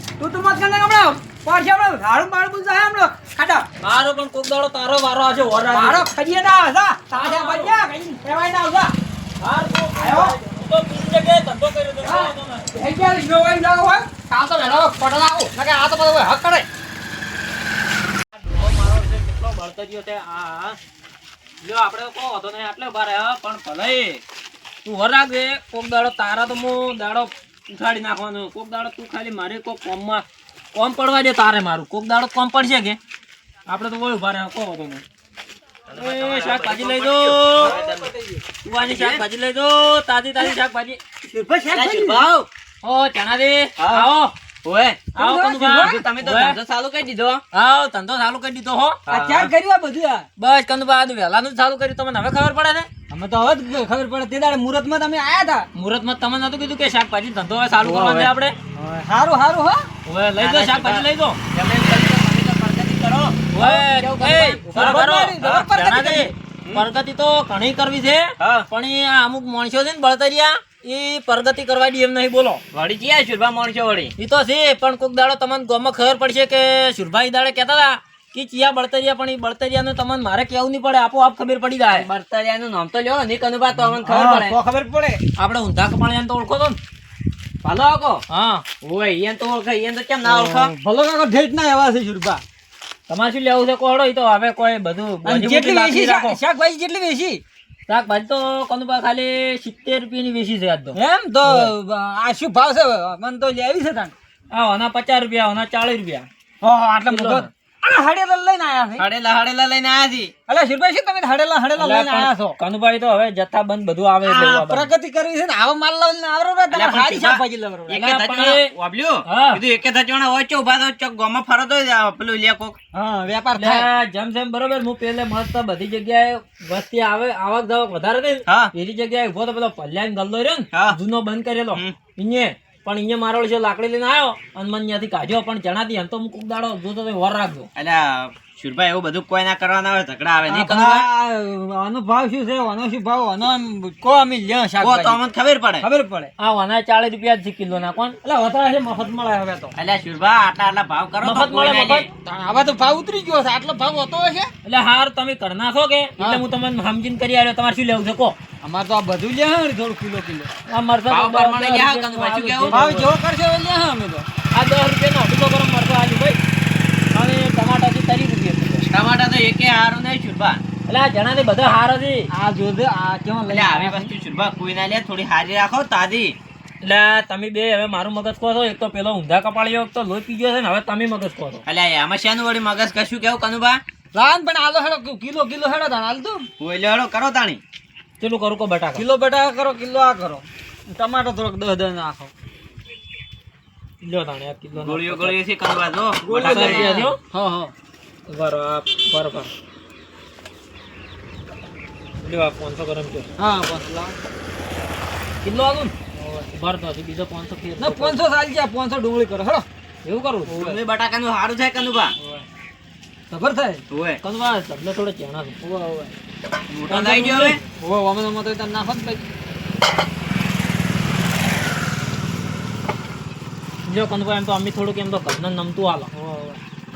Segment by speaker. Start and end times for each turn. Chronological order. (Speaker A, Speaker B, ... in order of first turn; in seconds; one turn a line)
Speaker A: 0.2-3.7
Speaker B: 3.8-6.0
Speaker A: 5.7-8.9
Speaker B: 7.1-7.8
Speaker B: 9.4-12.7
Speaker A: 10.0-10.3
Speaker A: 12.0-16.7
Speaker B: 18.4-20.8
Speaker B: 21.6-24.2
Speaker B: 24.9-33.0
Speaker B: 33.7-35.0
Speaker C: 35.9-38.1
Speaker B: 36.0-37.8
Speaker A: 37.6-38.1
Speaker B: 38.6-41.0
Speaker C: 38.8-39.2
Speaker A: 41.2-42.3
Speaker C: 41.7-42.5
Speaker B: 42.8-44.4
Speaker C: 43.8-44.1
Speaker C: 44.6-47.4
Speaker A: 45.2-46.0
Speaker B: 45.2-46.6
Speaker B: 47.5-49.1
Speaker C: 49.1-49.5
Speaker A: 49.1-50.3
Speaker B: 50.4-52.9
Speaker A: 53.1-55.7
Speaker B: 55.8-58.6
Speaker A: 57.8-59.9
Speaker B: 60.1-61.4
Speaker C: 60.4-64.4
Speaker B: 63.6-72.6
Speaker A: 63.6-66.3
Speaker C: 68.4-68.7
Speaker C: 72.7-74.1
Speaker B: 74.2-82.1
Speaker C: 81.9-84.6
Speaker A: 83.8-85.2
Speaker B: 85.4-86.8
Speaker C: 87.6-88.2
Speaker B: 88.3-88.6
Speaker C: 88.8-90.7
Speaker A: 90.2-92.4
Speaker B: 93.1-96.4
Speaker A: 95.2-97.4
Speaker B: 97.9-101.7
Speaker A: 101.0-104.1
Speaker B: 104.5-106.3
Speaker A: 106.6-109.0
Speaker B: 107.1-107.5
Speaker C: 109.0-110.3
Speaker A: 110.5-112.6
Speaker B: 111.8-114.9
Speaker A: 114.2-118.0
Speaker C: 116.7-122.8
Speaker B: 117.9-118.7
Speaker B: 119.3-119.6
Speaker A: 122.9-123.9
Speaker B: 123.6-137.7
Speaker C: 128.5-128.7
Speaker C: 130.7-131.0
Speaker C: 131.7-132.0
Speaker C: 137.8-141.1
Speaker A: 140.5-145.2
Speaker C: 144.8-145.9
Speaker A: 145.8-146.3
Speaker B: 146.4-148.2
Speaker A: 148.2-149.7
Speaker C: 149.8-152.1
Speaker B: 151.2-152.1
Speaker A: 152.2-154.5
Speaker B: 154.7-158.4
Speaker A: 158.6-160.5
Speaker B: 160.7-163.1
Speaker C: 161.1-162.8
Speaker A: 162.7-164.3
Speaker B: 164.5-166.4
Speaker B: 167.1-168.8
Speaker C: 168.8-170.6
Speaker B: 170.9-172.3
Speaker A: 172.3-174.1
Speaker C: 173.5-176.4
Speaker B: 176.8-181.6
Speaker C: 181.7-183.8
Speaker A: 184.2-186.5
Speaker C: 186.6-187.6
Speaker B: 188.2-189.1
Speaker A: 189.0-192.3
Speaker B: 194.0-195.4
Speaker C: 194.8-197.0
Speaker A: 196.2-197.7
Speaker B: 196.3-197.2
Speaker B: 198.3-199.5
Speaker B: 202.2-203.3
Speaker A: 203.4-204.2
Speaker B: 205.4-205.9
Speaker A: 206.2-206.5
Speaker B: 206.5-208.2
Speaker A: 207.8-209.7
Speaker B: 210.1-210.7
Speaker A: 210.5-210.8
Speaker C: 210.6-212.1
Speaker A: 212.2-212.4
Speaker A: 213.3-213.8
Speaker C: 213.9-214.2
Speaker B: 214.2-215.6
Speaker A: 215.6-216.1
Speaker C: 216.7-217.6
Speaker B: 216.9-217.6
Speaker A: 217.8-219.2
Speaker B: 223.9-226.1
Speaker A: 226.2-226.6